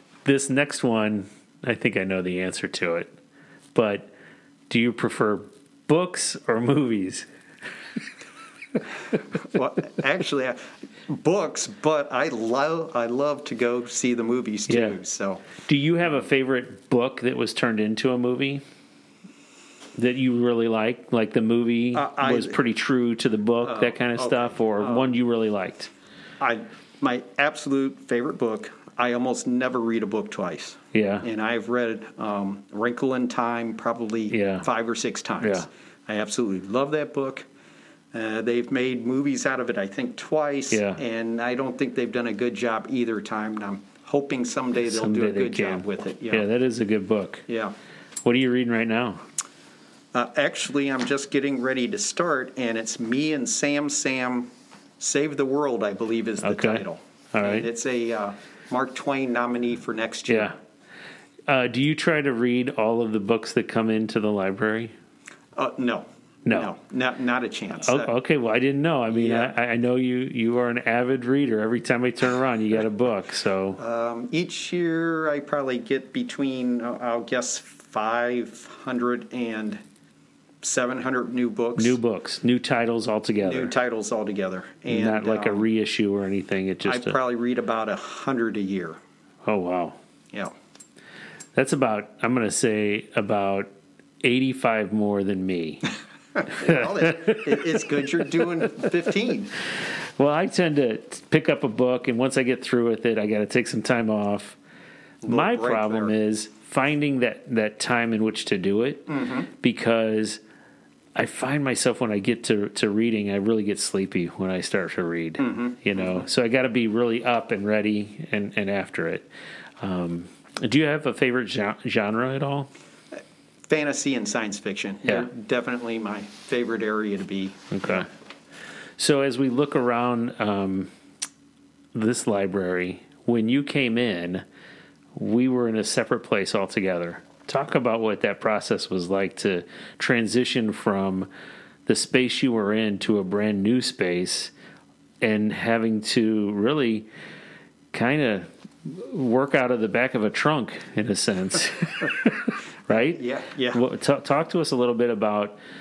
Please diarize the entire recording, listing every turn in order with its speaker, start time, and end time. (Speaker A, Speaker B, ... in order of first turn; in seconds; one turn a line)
Speaker A: 0.2-3.1
Speaker A: 3.7-4.1
Speaker A: 4.7-7.2
Speaker B: 9.3-15.4
Speaker A: 14.7-15.0
Speaker A: 15.6-18.6
Speaker A: 19.9-25.9
Speaker B: 21.9-22.6
Speaker B: 23.6-25.1
Speaker B: 26.4-37.5
Speaker A: 30.9-31.2
Speaker A: 34.3-34.6
Speaker A: 35.4-35.6
Speaker B: 38.1-46.4
Speaker A: 40.7-41.0
Speaker A: 44.8-47.5
Speaker B: 47.5-47.7
Speaker A: 48.2-49.2
Speaker B: 50.1-60.5
Speaker A: 56.4-57.6
Speaker A: 60.3-60.5
Speaker A: 61.5-64.9
Speaker B: 65.5-68.1
Speaker A: 66.5-66.7
Speaker A: 67.8-73.8
Speaker B: 69.1-69.5
Speaker B: 73.8-79.8
Speaker B: 80.6-82.0
Speaker A: 81.8-83.7
Speaker B: 83.4-85.7
Speaker A: 84.9-87.2
Speaker B: 86.8-89.0
Speaker A: 89.5-90.0
Speaker A: 91.5-93.7
Speaker A: 94.2-95.9
Speaker B: 96.4-99.5
Speaker A: 96.5-97.4
Speaker A: 100.2-104.6
Speaker B: 105.2-106.1
Speaker A: 105.2-110.4
Speaker B: 109.1-109.5
Speaker A: 111.2-119.3
Speaker B: 115.4-116.2
Speaker A: 119.8-122.7
Speaker B: 123.7-128.1
Speaker A: 127.7-128.1
Speaker A: 129.0-130.9
Speaker A: 131.9-134.4
Speaker A: 135.1-141.3
Speaker A: 141.8-144.5
Speaker A: 145.2-147.1
Speaker A: 147.9-153.2
Speaker B: 152.9-153.8
Speaker A: 153.7-155.6